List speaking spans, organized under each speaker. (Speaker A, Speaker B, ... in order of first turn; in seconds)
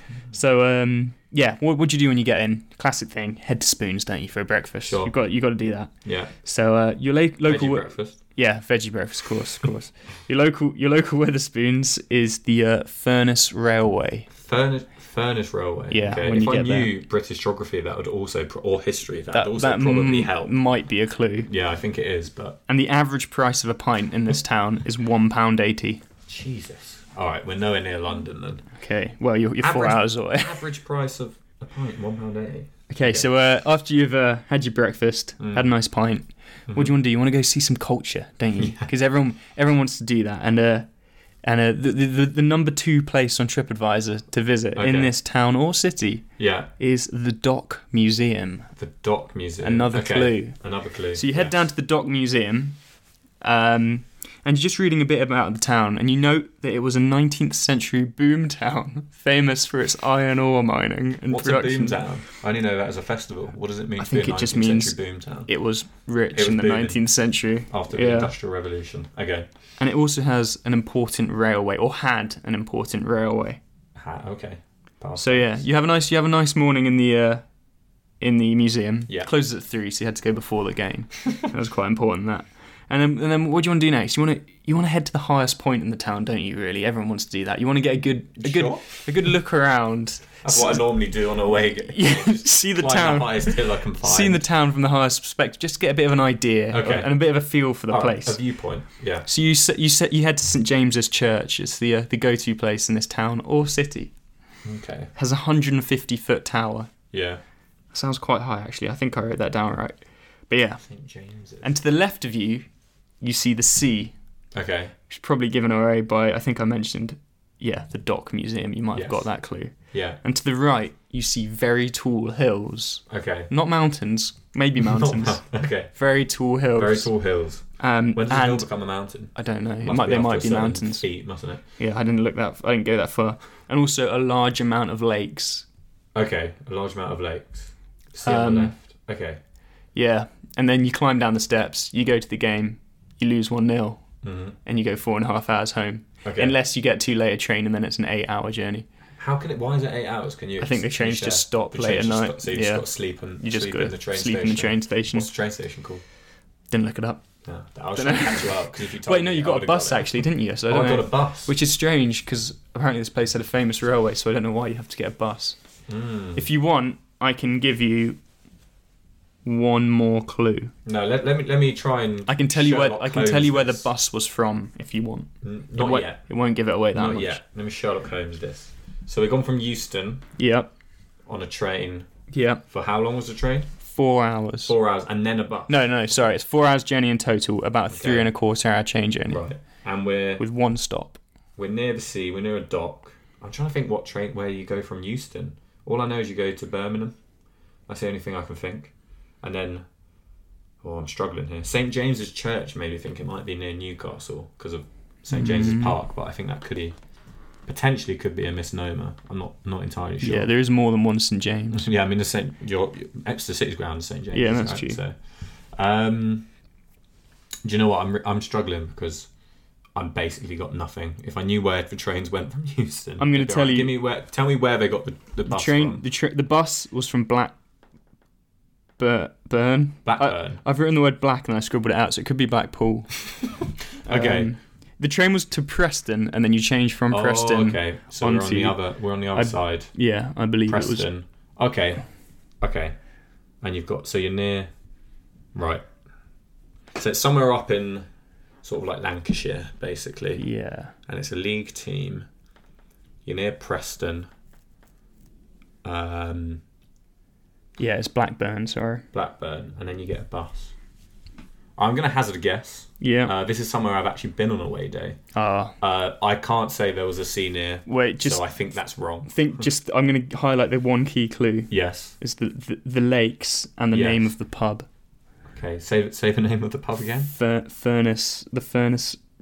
Speaker A: 0.3-14.3, 15.9-16.9, 19.3-21.5, 22.7-26.0, 28.8-30.6, 32.9-40.9, 41.4-46.3, 46.8-48.7, 49.6-50.6, 51.1-52.8, 53.4-62.0, 64.0-68.3, 69.8-73.6, 75.2-77.5, 78.2-90.9, 91.9-98.4, 99.3-104.1, 105.2-106.9, 107.9-110.8, 111.6-112.7, 113.2-114.1, 115.1-127.1, 127.7-128.7, 129.3-131.1, 131.8-135.7, 138.2-138.7, 139.9-144.1, 144.6-148.9, 150.6-155.3, 156.7-157.2, 157.9-165.6, 166.3-168.2, 169.4-170.7, 172.3-177.4, 180.4-180.7, 182.3-182.6, 183.9-184.8, 185.7-189.4, 190.4-191.2, 205.3-206.0, 210.2-211.9, 214.3-215.0, 223.2-224.0, 225.4-227.5, 229.0-233.5, 234.1-241.1, 250.4-250.9, 257.8-259.1, 263.0-263.3, 265.3-265.7, 267.9-268.4, 269.3-274.9, 277.3-279.2
Speaker B: 4.8-5.1, 6.0-6.3, 7.5-8.2, 14.3-20.5, 21.5-22.6, 26.3-28.7, 29.6-33.3, 35.4-35.6, 38.6-38.9, 44.8-45.1, 46.4-46.7, 48.8-51.6, 61.3-65.5, 66.3-67.0, 67.7-69.5, 74.0-75.5, 88.4-88.9, 90.4-94.4, 96.7-97.2, 97.9-99.3, 104.7-105.1, 107.1-107.4, 110.9-111.7, 114.5-114.9, 118.9-119.3, 119.9-120.2, 123.1-123.5, 124.8-126.0, 126.7-131.6, 136.2-139.4, 144.2-144.6, 146.2-146.6, 149.2-156.0, 157.4-161.5, 165.9-166.4, 170.8-173.9, 175.4-176.2, 176.9-180.2, 181.3-182.1, 182.7-183.7, 184.7-185.8, 187.9-188.3, 189.3-190.4, 191.6-197.2, 197.9-199.9, 200.8-207.0, 207.7-210.5, 211.7-216.5, 217.6-219.3, 219.9-226.0, 230.1-230.6, 234.1-234.5, 237.1-239.9, 240.7-242.1, 242.6-243.0, 243.6-244.7, 245.6-245.8, 246.9-248.1, 248.6-250.5, 251.1-252.3, 253.2-254.3, 255.8-256.6, 259.1-260.7, 261.8-265.2, 265.8-269.7, 271.7-272.1, 273.9-274.3, 275.5-277.3